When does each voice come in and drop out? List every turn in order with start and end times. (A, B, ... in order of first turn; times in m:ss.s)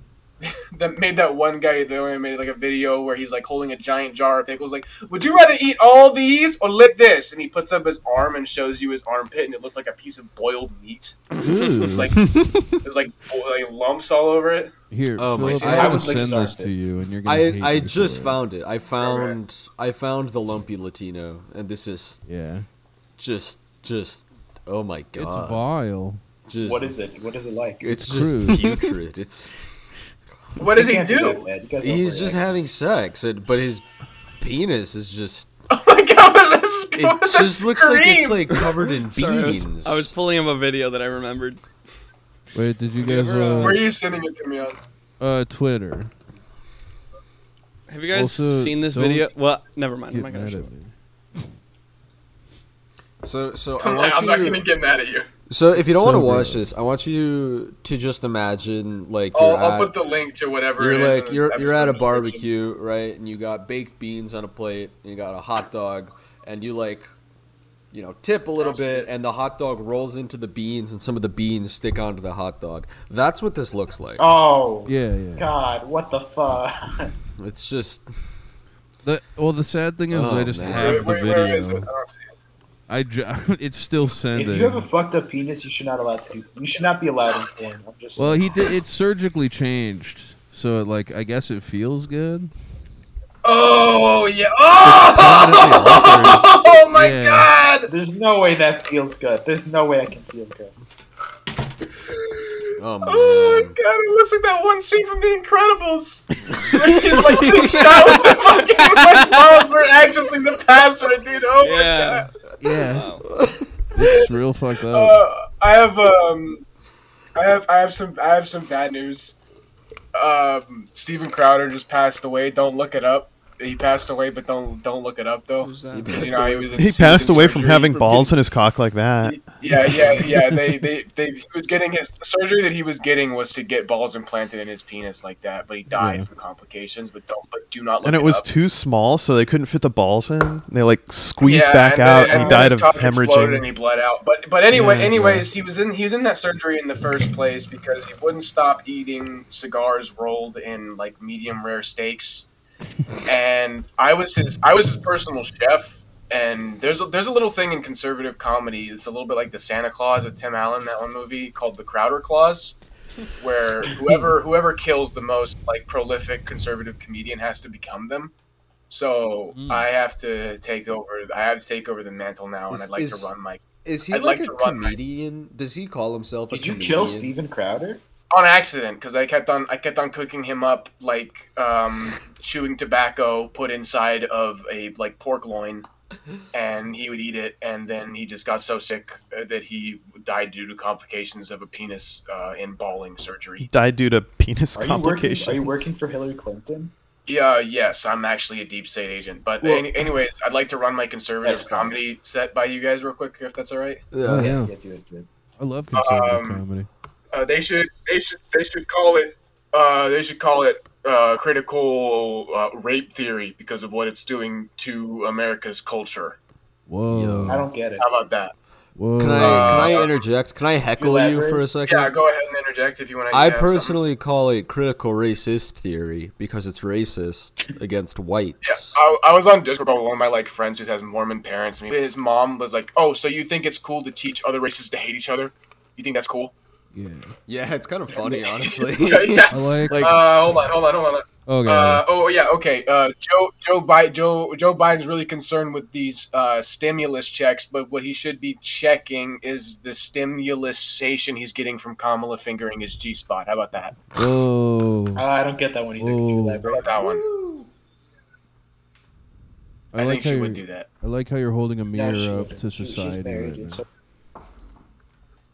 0:00.4-0:14.7 A
0:11.4-0:11.9 B
0:11.4-0:12.3 C
0:12.2-0:12.7 D
0:14.9-0:18.4 C
0:15.2-0:16.1 D
0:15.5-0:15.8 A
0:15.6-0:16.7 E
0:17.2-0:22.2 D
0:19.0-0:19.4 A
0:22.2-0:22.7 C
0:23.2-0:25.6 D
0:25.2-0:26.2 C
0:26.5-0:27.0 D
0:26.6-0:27.9 E
0:27.8-0:29.7 D
0:27.9-0:28.8 C
0:30.6-0:31.4 A
0:30.7-0:32.5 E
0:31.8-0:33.8 D
0:34.4-0:35.5 D
0:35.7-0:38.7 A
0:37.0-0:40.1 D
0:39.0-0:41.6 B
0:42.5-0:43.9 C
0:43.0-0:44.8 A
0:43.5-0:43.7 B
0:45.2-0:46.1 C
0:47.9-0:50.7 B
0:48.1-0:49.3 C
0:50.1-0:51.4 C
0:53.2-0:54.6 D
0:53.8-0:55.3 A
0:55.5-0:59.9 D
0:55.7-0:56.8 C
0:59.3-1:02.5 A
1:00.8-1:07.1 D
1:07.9-1:14.2 D
1:08.6-1:09.1 A
1:14.2-1:17.1 E
1:14.9-1:15.5 C
1:17.4-1:18.1 D
1:19.0-1:21.9 C
1:20.1-1:21.1 D
1:20.7-1:22.2 A
1:22.9-1:24.9 C
1:24.3-1:28.7 E
1:28.2-1:32.5 C
1:33.4-1:37.9 A
1:34.8-1:37.5 C
1:37.9-1:40.7 E
1:42.8-1:43.7 D
1:43.0-1:52.3 A
1:47.5-1:49.4 B
1:51.6-1:53.2 B
1:52.6-1:53.1 C
1:53.2-1:53.7 D
1:53.9-1:55.2 C
1:54.0-1:54.3 A
1:54.9-1:56.6 A
1:57.4-1:59.4 A
2:00.1-2:08.3 A
2:05.6-2:06.8 B
2:05.9-2:07.4 D
2:06.8-2:09.4 F
2:09.2-2:18.5 A
2:15.9-2:16.3 C
2:18.0-2:23.6 F
2:21.4-2:32.5 A
2:24.7-2:25.5 C
2:33.3-2:42.8 A
2:43.4-2:48.3 A
2:48.9-2:55.0 A
2:49.5-2:49.9 C
2:52.7-2:53.3 D
2:53.8-2:57.3 D
2:56.5-2:58.0 E
2:58.3-3:05.9 A
3:06.5-3:13.7 A
3:13.6-3:15.9 F
3:14.8-3:16.9 E
3:17.3-3:24.0 A
3:21.4-3:22.0 E
3:24.1-3:24.5 D
3:24.2-3:24.7 C
3:24.3-3:25.3 E
3:25.6-3:26.9 C
3:25.9-3:26.6 A
3:27.3-3:36.4 A
3:36.9-3:37.7 C
3:37.1-3:37.6 D
3:37.5-3:38.0 E
3:38.0-3:38.5 A
3:39.0-3:40.0 C
3:39.2-3:42.1 D
3:39.4-3:40.2 A
3:41.0-3:41.7 E
3:41.9-3:44.0 A
3:43.3-3:49.0 D
3:48.6-3:56.5 A
3:56.9-3:57.4 C
3:57.5-4:00.5 D
3:58.1-4:14.0 A
3:59.5-4:00.1 C
4:01.5-4:02.0 C
4:14.1-4:15.2 C
4:15.2-4:16.9 E
4:16.0-4:16.7 C
4:16.7-4:17.3 A
4:16.8-4:17.7 D
4:19.9-4:23.8 C
4:20.0-4:20.9 A
4:21.9-4:23.9 E